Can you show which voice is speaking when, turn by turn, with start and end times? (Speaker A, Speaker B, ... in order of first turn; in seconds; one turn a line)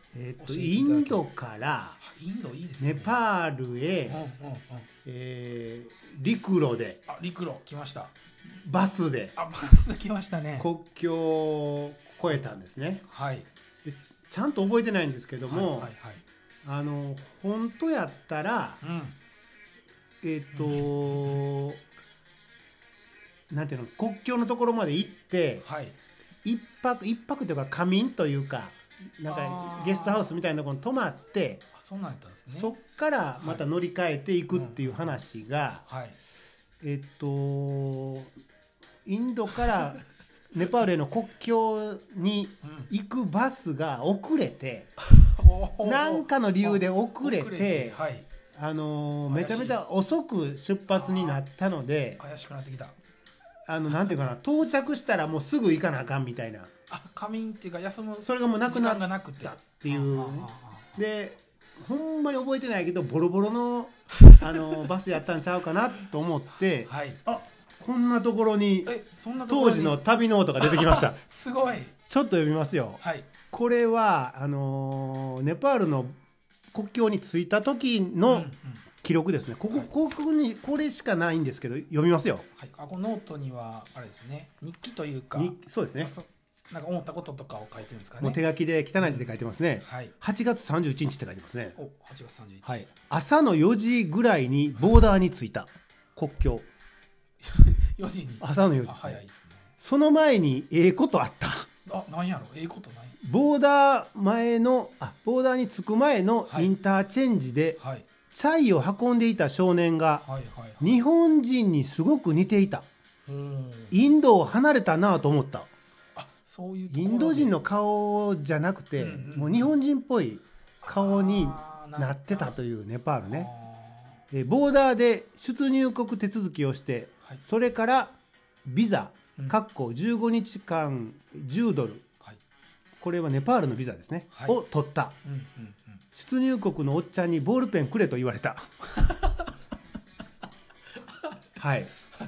Speaker A: 0.1-2.0
Speaker B: 0.4-1.2
Speaker B: 2.0-3.2
Speaker A: 2.8-4.2
Speaker B: 4.1-4.9
Speaker A: 5.0-7.0
Speaker B: 7.1-8.1
Speaker A: 8.6-9.3
Speaker B: 9.3-10.7
Speaker A: 10.6-13.0
Speaker B: 13.1-13.5
Speaker A: 13.8-15.9
Speaker B: 15.5-16.2
Speaker A: 16.6-18.8
Speaker B: 18.8-19.1
Speaker A: 20.2-21.8
Speaker B: 20.5-21.4
Speaker A: 23.5-25.6
Speaker B: 25.6-25.9
Speaker A: 26.4-31.6
Speaker B: 29.3-30.3
Speaker B: 31.7-32.8
Speaker A: 32.5-35.8
Speaker B: 33.4-33.6
Speaker B: 34.5-35.2
Speaker B: 35.9-36.2
Speaker A: 36.8-38.3
Speaker A: 39.0-44.9
Speaker B: 42.6-42.9
Speaker B: 45.0-48.3
Speaker A: 45.8-48.0
Speaker A: 48.5-52.2
Speaker B: 49.3-49.8
Speaker B: 50.9-51.4
Speaker B: 52.2-53.0
Speaker A: 53.7-56.7
Speaker B: 53.9-54.2
Speaker B: 56.9-61.0
Speaker A: 58.2-71.2
Speaker B: 64.2-64.6
Speaker B: 66.8-67.2
Speaker B: 68.8-70.0
Speaker B: 70.6-71.9
Speaker A: 72.1-76.2
Speaker B: 73.0-73.3
Speaker A: 76.7-78.5
Speaker B: 78.3-78.8
Speaker A: 79.0-82.4
Speaker B: 82.5-88.4
Speaker A: 85.3-86.1
Speaker A: 88.2-91.8
Speaker B: 89.0-90.1
Speaker B: 91.8-92.9
Speaker A: 92.6-96.7
Speaker B: 97.4-99.7
Speaker A: 98.4-99.2
Speaker A: 99.8-101.7
Speaker B: 101.8-103.2
Speaker A: 103.2-107.8
Speaker B: 106.5-106.7
Speaker B: 107.8-108.0
Speaker A: 108.3-110.3
Speaker B: 110.2-111.0
Speaker A: 110.8-112.8
Speaker B: 113.2-114.1
Speaker A: 113.9-115.7
Speaker B: 116.1-117.6
Speaker A: 116.9-123.5
Speaker B: 119.0-119.8
Speaker B: 120.8-122.5
Speaker B: 123.3-124.2
Speaker A: 124.3-132.0
Speaker A: 133.0-135.2
Speaker B: 134.3-134.6
Speaker B: 135.2-136.0
Speaker A: 136.1-138.7
Speaker B: 139.1-139.5
Speaker A: 141.6-141.9